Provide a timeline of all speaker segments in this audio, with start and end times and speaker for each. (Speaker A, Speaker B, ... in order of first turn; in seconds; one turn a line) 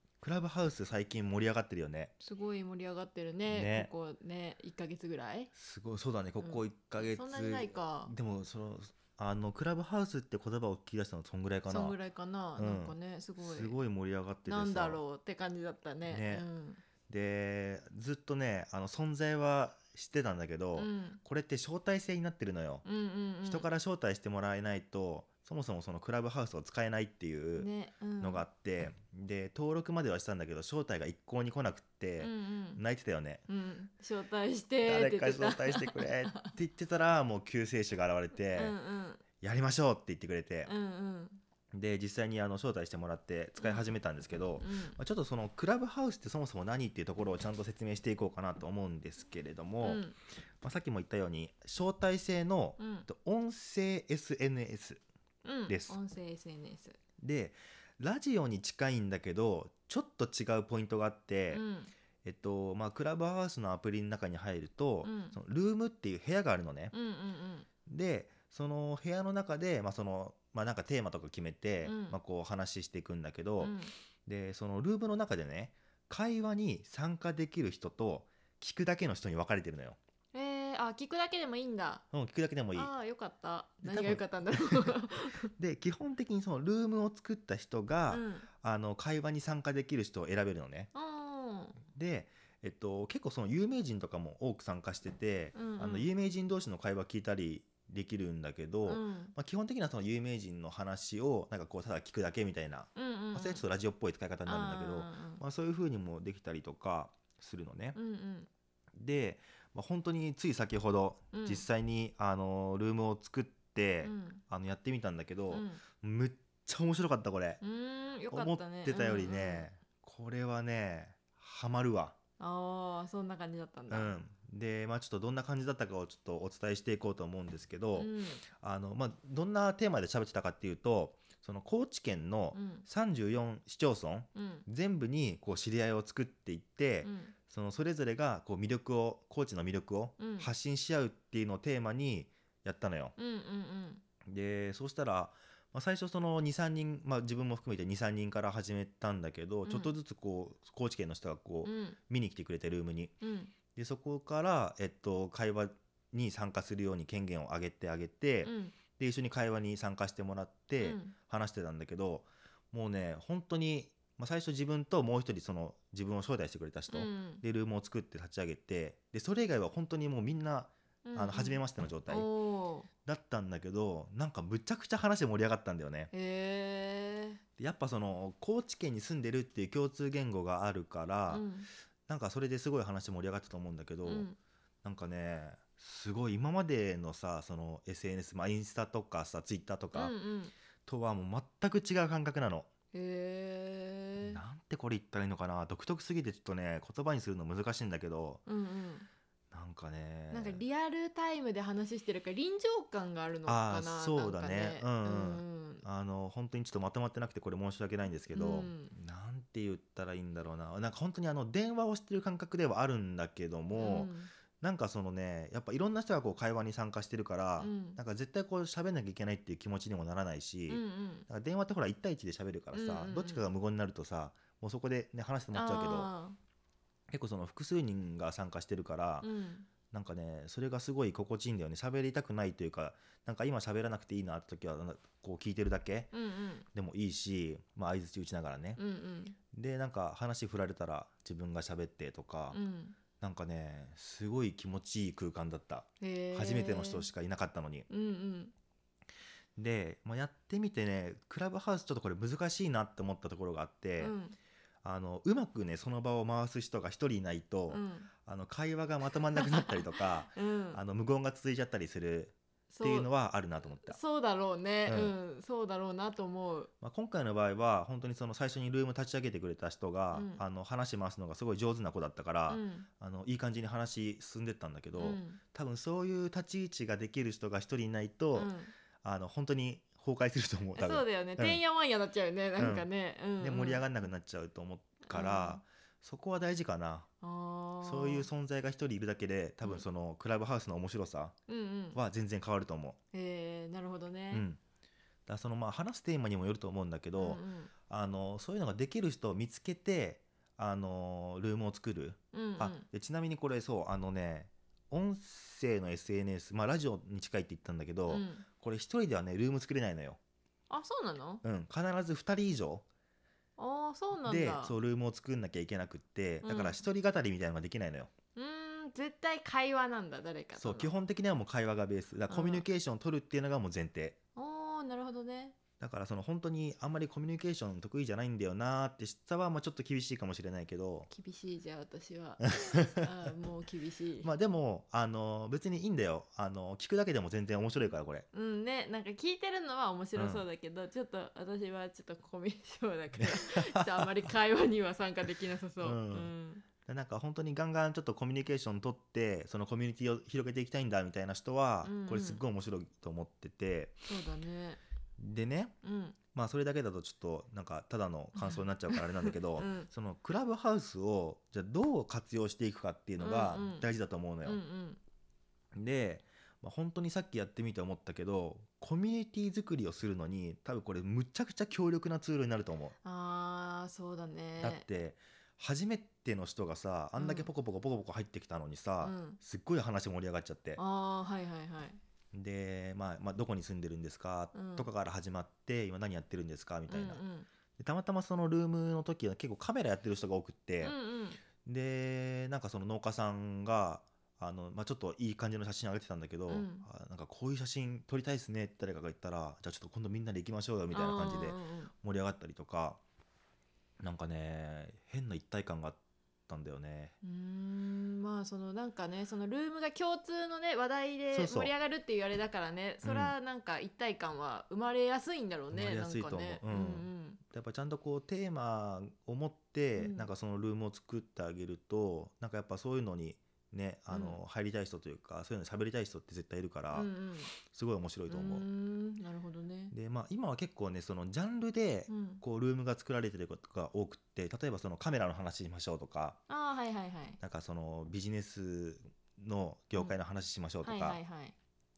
Speaker A: 0.2-2.1
Speaker B: 2.2-5.5
Speaker A: 3.5-3.9
Speaker A: 5.5-12.0
Speaker B: 6.4-8.1
Speaker B: 11.7-13.8
Speaker A: 12.6-15.0
Speaker B: 14.5-16.8
Speaker A: 16.1-16.5
Speaker A: 17.1-22.8
Speaker B: 20.8-21.2
Speaker B: 22.8-23.7
Speaker A: 23.4-33.5
Speaker B: 27.6-28.4
Speaker B: 32.2-32.8
Speaker B: 33.5-36.5
Speaker A: 34.8-38.8
Speaker B: 38.5-39.2
Speaker A: 39.4-40.7
Speaker B: 40.6-41.4
Speaker A: 41.7-50.0
Speaker B: 43.6-43.8
Speaker B: 44.6-45.0
Speaker B: 49.8-50.1
Speaker A: 50.6-55.0
Speaker B: 52.8-53.1
Speaker B: 55.4-57.0
Speaker A: 55.7-56.0
Speaker A: 57.2-61.6
Speaker B: 61.5-61.9
Speaker A: 62.2-66.9
Speaker B: 65.0-65.4
Speaker B: 66.9-67.7
Speaker A: 67.8-73.7
Speaker B: 71.8-72.2
Speaker B: 73.6-73.9
Speaker A: 74.2-80.0
Speaker B: 80.3-82.0
Speaker A: 82.1-82.9
Speaker B: 82.7-85.5
Speaker A: 83.8-85.0
Speaker A: 85.5-90.9
Speaker B: 88.1-88.5
Speaker B: 90.9-91.8
Speaker A: 91.9-108.0
Speaker B: 95.5-96.1
Speaker B: 98.8-99.3
Speaker B: 102.9-103.6
Speaker B: 104.5-105.4
Speaker B: 107.9-108.5
Speaker A: 109.0-117.6
Speaker B: 111.3-111.6
Speaker B: 114.0-114.4
Speaker B: 115.5-115.8
Speaker B: 117.6-119.7
Speaker A: 118.3-122.1
Speaker B: 122.4-124.1
Speaker A: 123.9-143.1
Speaker B: 128.0-128.4
Speaker B: 132.5-132.8
Speaker B: 134.3-134.7
Speaker B: 137.0-137.3
Speaker B: 140.2-140.5
Speaker B: 143.2-144.0
Speaker A: 144.2-153.1
Speaker B: 149.6-149.9
Speaker B: 151.6-152.0
Speaker B: 153.2-153.5
Speaker A: 153.7-172.3
Speaker B: 158.4-158.8
Speaker B: 160.8-161.1
Speaker B: 166.9-167.4
Speaker B: 171.0-172.9
Speaker A: 173.0-176.1
Speaker B: 176.1-177.4
Speaker A: 177.6-181.5
Speaker B: 181.3-181.7
Speaker A: 182.1-184.3
Speaker B: 184.0-184.4
Speaker A: 184.8-190.1
Speaker B: 189.9-190.5
Speaker A: 190.8-192.7
Speaker B: 192.9-194.4
Speaker A: 194.2-198.4
Speaker B: 198.4-199.1
Speaker A: 199.5-200.6
Speaker B: 200.3-205.8
Speaker A: 203.4-226.1
Speaker B: 208.3-208.9
Speaker B: 213.7-214.3
Speaker B: 217.6-218.0
Speaker B: 220.7-221.2
Speaker B: 222.7-223.5
Speaker B: 225.5-226.4
Speaker A: 227.1-229.3
Speaker B: 229.2-229.7
Speaker A: 229.9-236.1
Speaker B: 236.1-236.7
Speaker A: 236.7-238.8
Speaker B: 238.8-239.3
Speaker A: 239.5-242.6
Speaker B: 242.5-242.9
Speaker A: 243.2-247.9
Speaker B: 246.0-247.1
Speaker B: 247.9-248.5
Speaker A: 249.6-254.2
Speaker B: 254.0-254.3
Speaker A: 254.8-264.0
Speaker B: 257.7-258.1
Speaker B: 259.3-260.8
Speaker B: 262.7-263.1
Speaker B: 263.8-266.7
Speaker A: 264.9-265.1
Speaker A: 266.8-281.6
Speaker B: 270.1-270.4
Speaker B: 272.5-272.9
Speaker B: 275.0-275.4
Speaker B: 278.3-278.7
Speaker B: 280.7-283.8
Speaker A: 282.6-282.9
Speaker A: 283.4-287.1
Speaker B: 285.1-285.6
Speaker B: 287.2-288.3
Speaker A: 287.8-291.4
Speaker B: 291.5-292.0
Speaker A: 291.9-293.0
Speaker B: 293.1-294.4
Speaker A: 294.3-294.6
Speaker A: 295.3-310.2
Speaker B: 297.2-297.7
Speaker B: 302.3-302.9
Speaker B: 308.1-308.4
Speaker B: 310.7-311.4
Speaker A: 311.4-312.9
Speaker B: 313.6-314.8
Speaker A: 314.2-318.1
Speaker B: 316.4-316.8
Speaker B: 318.3-320.9
Speaker A: 320.5-324.2
Speaker B: 322.3-322.6
Speaker B: 324.4-325.6
Speaker A: 325.8-331.1
Speaker B: 331.1-334.3
Speaker A: 332.4-332.8
Speaker A: 334.2-338.2
Speaker B: 338.3-346.6
Speaker A: 340.1-340.4
Speaker A: 343.1-344.1
Speaker A: 345.8-346.3
Speaker A: 346.8-354.1
Speaker B: 351.8-352.4
Speaker B: 354.1-354.8
Speaker A: 355.2-355.7
Speaker B: 355.8-356.2
Speaker A: 356.3-364.6
Speaker B: 358.3-359.9
Speaker B: 363.2-363.9
Speaker B: 364.4-365.0
Speaker A: 365.7-372.9
Speaker B: 373.0-374.9
Speaker A: 374.6-380.8
Speaker B: 377.1-377.5
Speaker B: 379.0-379.4
Speaker B: 380.8-382.0
Speaker A: 382.3-387.2
Speaker B: 384.5-384.9
Speaker B: 386.9-387.5
Speaker A: 387.8-390.9
Speaker B: 390.8-391.4
Speaker A: 391.6-403.0
Speaker B: 396.5-396.9
Speaker B: 400.9-401.9
Speaker A: 404.0-407.1
Speaker B: 407.2-417.4
Speaker A: 411.3-411.7
Speaker A: 413.0-413.3
Speaker A: 415.7-428.6
Speaker B: 420.0-420.3
Speaker B: 424.1-424.4
Speaker B: 426.9-427.5
Speaker B: 428.3-429.9
Speaker A: 429.9-436.4
Speaker B: 432.1-432.4
Speaker B: 436.5-437.4
Speaker A: 437.4-441.2
Speaker B: 440.8-441.5